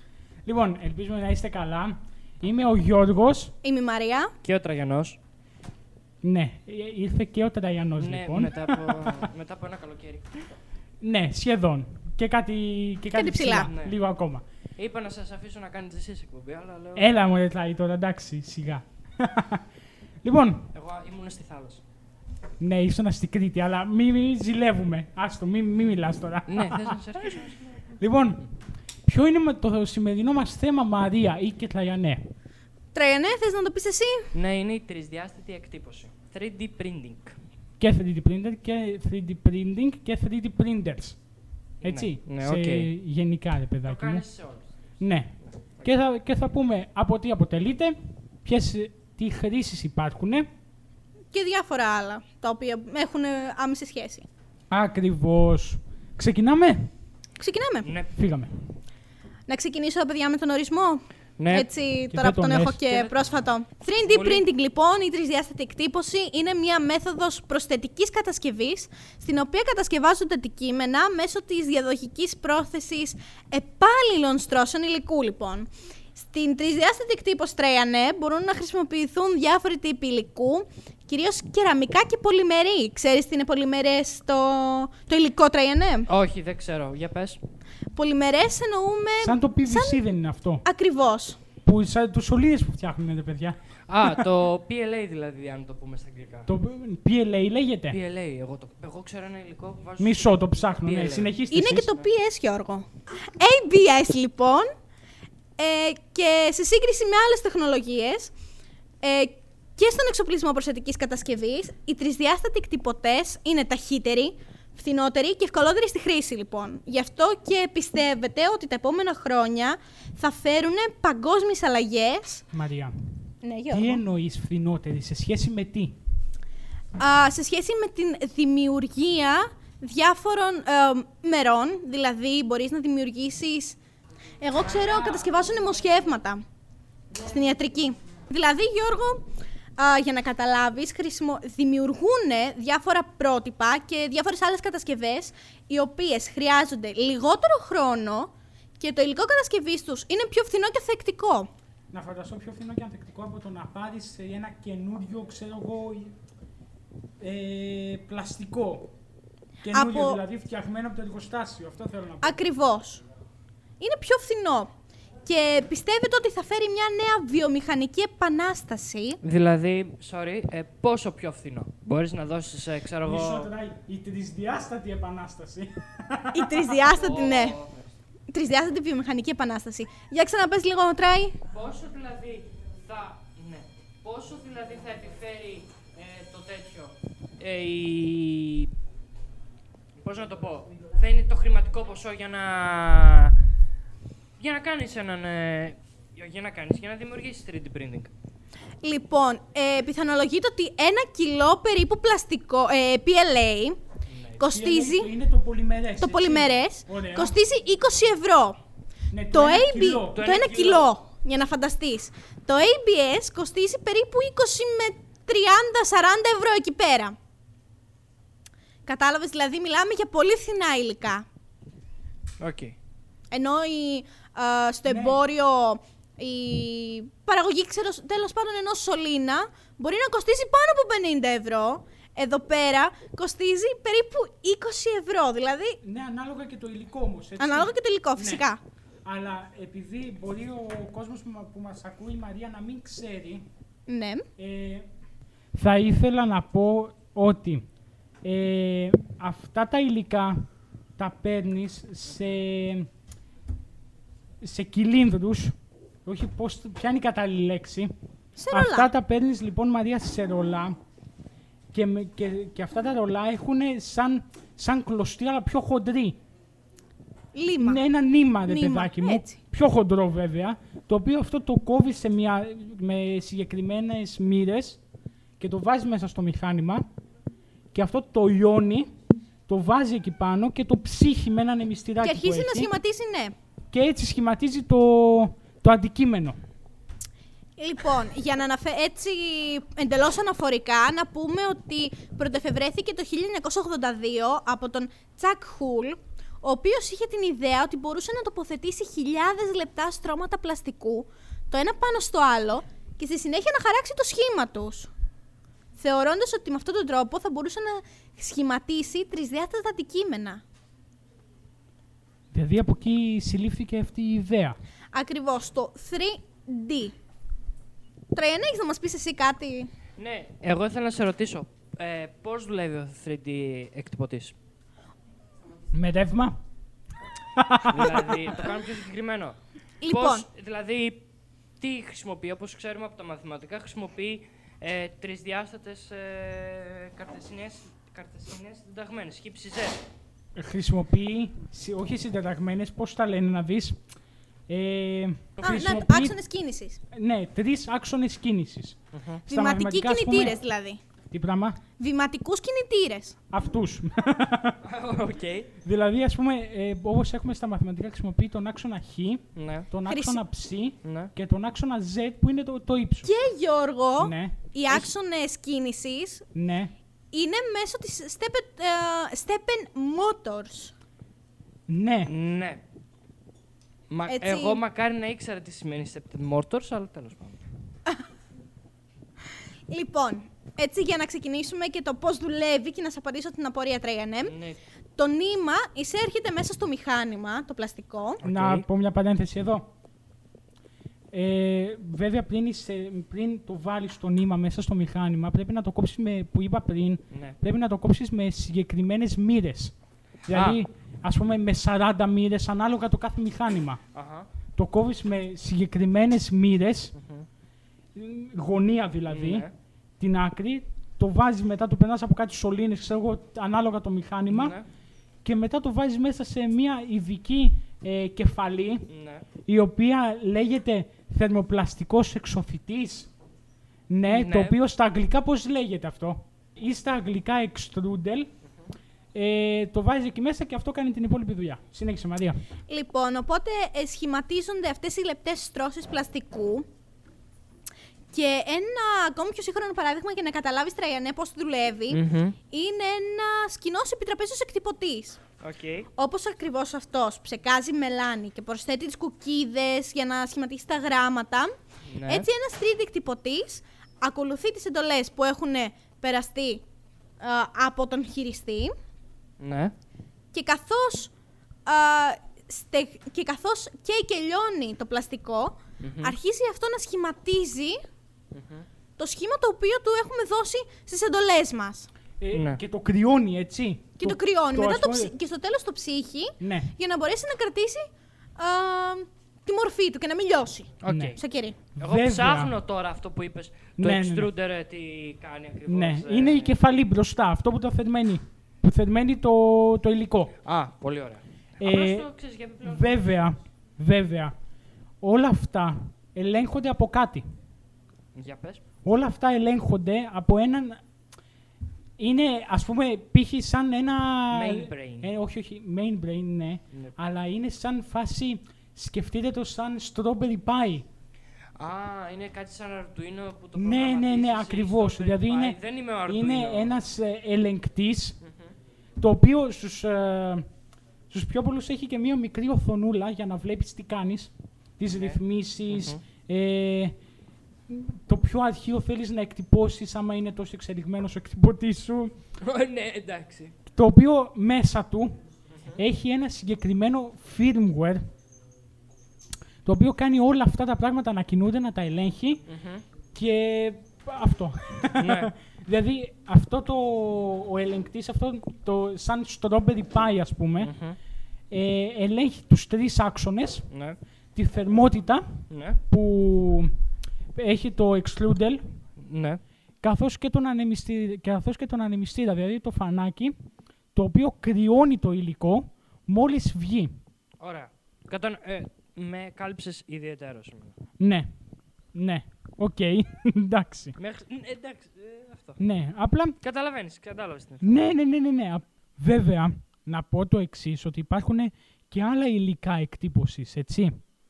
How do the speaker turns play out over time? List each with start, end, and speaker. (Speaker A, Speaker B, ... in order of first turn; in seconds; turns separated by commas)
Speaker A: 0.5-3.6, Speaker B: 3.6-4.3, Speaker C: 4.4-5.2, Speaker A: 6.2-9.3, Speaker C: 8.0-10.3, Speaker A: 11.0-14.4, Speaker B: 13.1-13.7, Speaker C: 13.7-13.9, Speaker C: 14.8-17.1, Speaker A: 17.0-19.6, Speaker A: 20.2-20.7, Speaker C: 20.7-21.8, Speaker A: 22.6-27.5, Speaker C: 26.5-27.7, Speaker A: 28.0-28.5, Speaker A: 29.1-32.3, Speaker B: 32.9-34.3, Speaker C: 34.3-37.4, Speaker A: 37.8-41.2, Speaker C: 41.8-42.9, Speaker A: 41.8-44.3, Speaker C: 43.8-44.7, Speaker A: 45.0-50.5, Speaker B: 51.3-54.3, Speaker A: 54.7-56.9, Speaker B: 57.4-57.9, Speaker C: 57.8-58.1, Speaker A: 58.1-58.5, Speaker B: 59.5-86.1, Speaker C: 61.4-61.7, Speaker A: 62.1-62.8, Speaker C: 62.9-63.4, Speaker C: 64.0-64.5, Speaker C: 86.1-87.4, Speaker B: 88.0-90.0, Speaker A: 89.2-90.6, Speaker B: 90.7-91.4, Speaker A: 91.6-94.2, Speaker C: 93.9-96.5, Speaker A: 96.5-98.0, Speaker C: 97.9-101.4, Speaker A: 100.0-101.9, Speaker B: 101.5-104.7, Speaker B: 105.6-108.3, Speaker B: 109.0-122.5, Speaker A: 122.5-122.9, Speaker B: 123.4-124.0, Speaker A: 123.7-126.0, Speaker B: 127.0-133.8, Speaker B: 134.4-136.4, Speaker B: 137.2-151.5, Speaker A: 151.9-156.1, Speaker A: 157.2-158.9, Speaker B: 159.7-160.2, Speaker A: 159.7-162.4, Speaker B: 162.2-163.0, Speaker B: 163.8-164.7, Speaker B: 165.3-169.2, Speaker C: 169.2-173.5, Speaker A: 173.0-176.8, Speaker B: 176.3-177.6, Speaker C: 176.8-177.9, Speaker B: 178.3-181.4, Speaker C: 181.5-188.7, Speaker C: 190.0-193.3, Speaker C: 194.4-198.1, Speaker B: 198.8-203.8, Speaker B: 204.4-205.1, Speaker A: 204.4-207.3, Speaker B: 206.0-208.6, Speaker A: 209.1-210.2, Speaker B: 209.3-217.2, Speaker C: 210.1-210.9, Speaker B: 218.9-221.3, Speaker C: 222.4-222.8, Speaker B: 223.3-235.8, Speaker A: 224.9-225.2, Speaker A: 235.8-238.4, Speaker B: 237.4-238.6, Speaker A: 239.1-243.5, Speaker B: 243.9-244.3, Speaker A: 244.4-244.9, Speaker A: 245.5-247.6, Speaker A: 248.2-252.9, Speaker A: 254.4-255.5, Speaker A: 256.1-257.9, Speaker B: 258.4-258.9, Speaker A: 258.5-260.8, Speaker A: 261.7-266.2, Speaker B: 267.3-267.8, Speaker A: 267.6-274.8, Speaker B: 268.5-269.4, Speaker A: 275.4-276.9, Speaker A: 277.7-278.9, Speaker A: 279.5-282.7, Speaker B: 282.0-283.4, Speaker A: 283.7-286.4, Speaker B: 287.6-304.9, Speaker B: 305.8-310.4, Speaker A: 312.3-314.6, Speaker B: 314.9-316.9, Speaker B: 318.1-319.7, Speaker C: 320.0-324.4, Speaker A: 325.7-326.4, Speaker A: 327.4-328.1, Speaker C: 327.6-329.4, Speaker B: 329.8-330.2, Speaker C: 329.9-331.0, Speaker C: 331.6-339.8, Speaker A: 340.4-343.8, Speaker A: 344.5-346.1, Speaker C: 345.4-345.8, Speaker B: 345.4-346.8, Speaker A: 346.9-348.8, Speaker C: 348.9-349.2, Speaker B: 349.3-350.8, Speaker A: 349.3-350.4, Speaker A: 351.1-351.6, Speaker B: 351.8-353.2, Speaker A: 353.3-354.6, Speaker C: 354.6-355.5, Speaker A: 355.6-363.1, Speaker C: 359.4-359.7, Speaker B: 359.9-360.2, Speaker C: 360.8-361.1, Speaker B: 363.0-366.2, Speaker A: 364.0-364.9, Speaker A: 366.3-366.7, Speaker B: 367.1-370.7, Speaker A: 371.7-372.1, Speaker C: 372.1-372.6, Speaker C: 373.9-377.4, Speaker B: 374.1-374.6, Speaker B: 379.7-384.4, Speaker C: 384.3-384.6, Speaker B: 385.0-388.2, Speaker C: 388.2-388.7, Speaker A: 388.2-389.7, Speaker A: 391.1-399.8, Speaker C: 397.1-397.4, Speaker A: 400.3-403.8, Speaker C: 400.3-400.6, Speaker C: 403.9-404.3, Speaker A: 404.6-406.9, Speaker C: 407.0-407.3, Speaker A: 408.0-409.5, Speaker C: 409.1-409.5, Speaker A: 410.0-414.6, Speaker C: 414.3-414.6, Speaker A: 415.2-418.9, Speaker C: 418.9-419.3, Speaker A: 419.5-423.1, Speaker A: 423.9-428.3, Speaker C: 424.1-424.6, Speaker A: 429.1-432.4, Speaker B: 432.7-436.6, Speaker B: 438.1-445.2, Speaker C: 441.9-442.4, Speaker C: 445.4-445.9, Speaker B: 446.0-451.5, Speaker C: 451.9-452.3, Speaker B: 452.1-456.6, Speaker B: 457.2-458.8, Speaker C: 459.4-459.7, Speaker B: 460.3-461.1, Speaker B: 461.7-467.8, Speaker C: 465.8-466.2, Speaker C: 468.3-468.7, Speaker B: 469.0-471.9, Speaker A: 472.2-475.1, Speaker C: 472.3-472.6, Speaker B: 474.0-477.9, Speaker A: 476.4-476.7, Speaker B: 478.4-481.6, Speaker C: 480.8-481.2, Speaker A: 480.9-481.2, Speaker A: 481.8-482.6, Speaker C: 481.8-486.6, Speaker A: 483.8-484.3, Speaker A: 485.7-490.3, Speaker C: 490.4-493.0, Speaker A: 491.6-492.1, Speaker A: 492.6-494.3, Speaker A: 495.0-497.2, Speaker C: 498.1-498.6, Speaker A: 498.9-500.8, Speaker A: 502.0-510.9, Speaker C: 504.3-505.1, Speaker C: 511.6-516.8, Speaker A: 513.6-518.2, Speaker A: 519.0-520.5, Speaker A: 521.1-527.0, Speaker C: 524.9-526.0, Speaker A: 527.7-532.2, Speaker C: 532.4-533.5, Speaker A: 533.7-535.2, Speaker A: 535.7-538.0, Speaker A: 539.6-542.4, Speaker C: 542.5-542.8, Speaker A: 543.1-550.7, Speaker C: 545.0-545.3, Speaker C: 550.6-551.0, Speaker A: 551.5-553.7, Speaker C: 553.7-554.0, Speaker A: 554.4-556.7, Speaker C: 555.5-555.8, Speaker A: 557.4-558.6, Speaker C: 559.0-559.4, Speaker A: 559.8-563.4, Speaker A: 564.0-566.9, Speaker C: 567.4-570.8, Speaker A: 571.0-571.3, Speaker A: 572.0-574.0, Speaker C: 574.0-575.6, Speaker A: 575.6-576.4, Speaker C: 576.4-577.9, Speaker A: 577.6-584.0